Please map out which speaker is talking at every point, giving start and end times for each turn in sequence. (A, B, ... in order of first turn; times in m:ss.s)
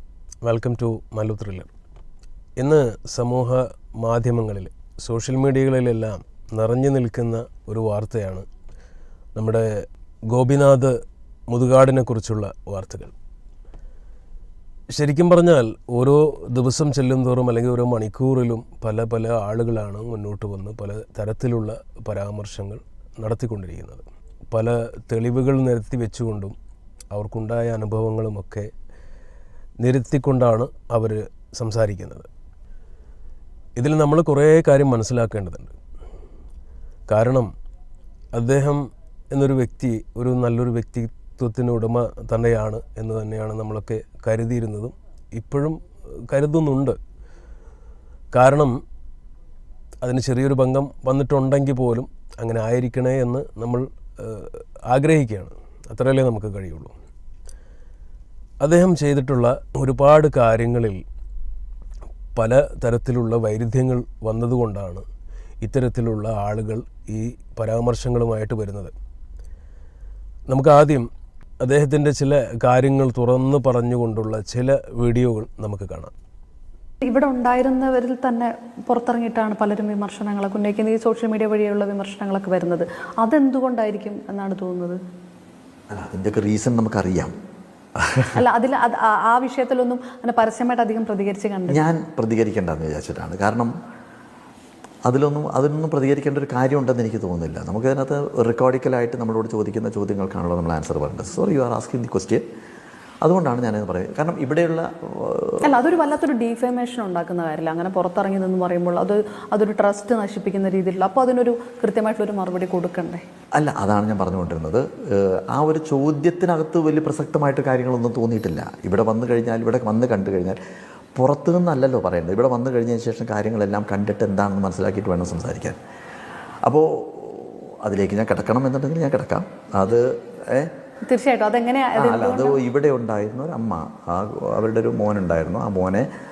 0:00.4-0:01.7 A
0:02.6-0:08.4 A
0:09.4-0:09.7 A
0:10.3-0:11.0 A
0:11.5-0:13.1 A
0:14.9-0:26.6 A
0:27.1-0:28.7 A
0:29.8-0:32.3 A
0:33.8-0:35.7 A
0:37.1-0:37.5 A
0:38.3-0:47.0 A
0:48.3-0:48.8 A
0:50.0-0:56.9 A
0:58.6-1:01.0 A
1:02.4-1:05.0 A
1:05.6-1:08.9 A
1:10.5-1:11.1 A
1:11.6-1:16.1 A
1:17.0-1:25.0 B
1:25.9-1:27.4 C
1:28.0-1:28.4 C
1:28.3-1:31.8 B
1:31.7-1:33.7 C
1:35.0-1:42.4 C
1:43.2-1:45.8 C
1:45.6-1:53.2 B
1:53.6-2:00.6 C
2:01.2-2:05.8 C
2:06.6-2:10.7 C
2:11.1-2:12.6 B
2:12.0-2:16.1 C